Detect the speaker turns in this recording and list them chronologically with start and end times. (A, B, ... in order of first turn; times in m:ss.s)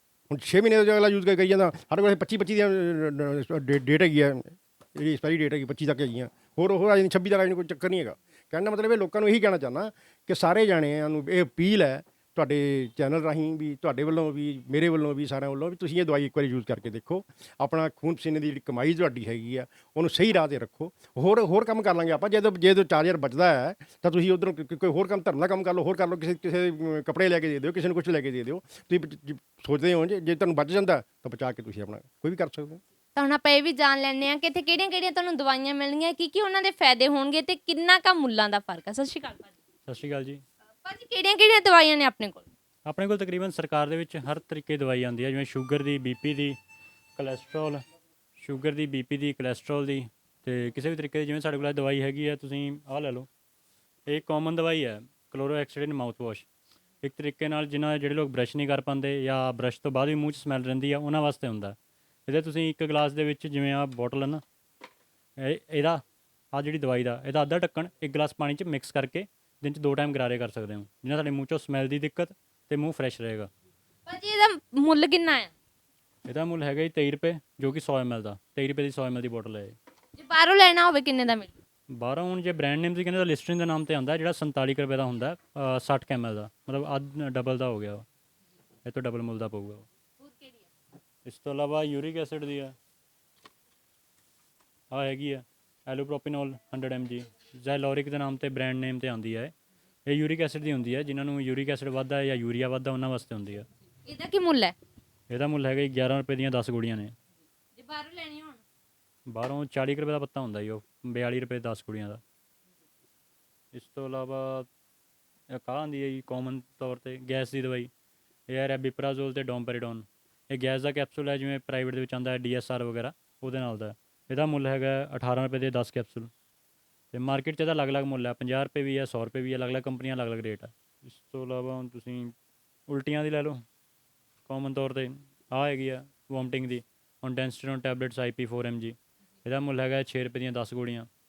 0:00.3-0:32.8 A
0:33.2-0:39.5 B
0:39.9-0:40.4 C
0:40.8-0:42.5 B
0:42.8-0:46.6 C
0:47.2-0:47.8 C
0:48.4-0:53.3 C
0:54.1-0:56.5 C
0:57.0-1:01.8 C
1:02.3-1:04.4 C
1:05.4-1:06.0 C
1:06.5-1:13.5 C
1:14.0-1:15.5 B
1:16.3-1:19.7 C
1:20.2-1:21.5 B
1:22.0-1:28.0 C
1:28.8-1:29.8 C
1:30.2-1:30.6 B
1:31.2-1:32.7 C
1:34.9-1:39.5 C
1:40.1-1:43.7 C
1:44.0-1:44.7 B
1:45.3-1:47.1 C
1:47.8-1:48.6 B
1:49.3-1:52.2 C
1:53.7-1:54.7 C
1:55.5-1:57.9 C
1:58.5-2:06.3 C
2:07.1-2:12.3 C
2:12.9-2:13.6 C
2:14.5-2:21.1 C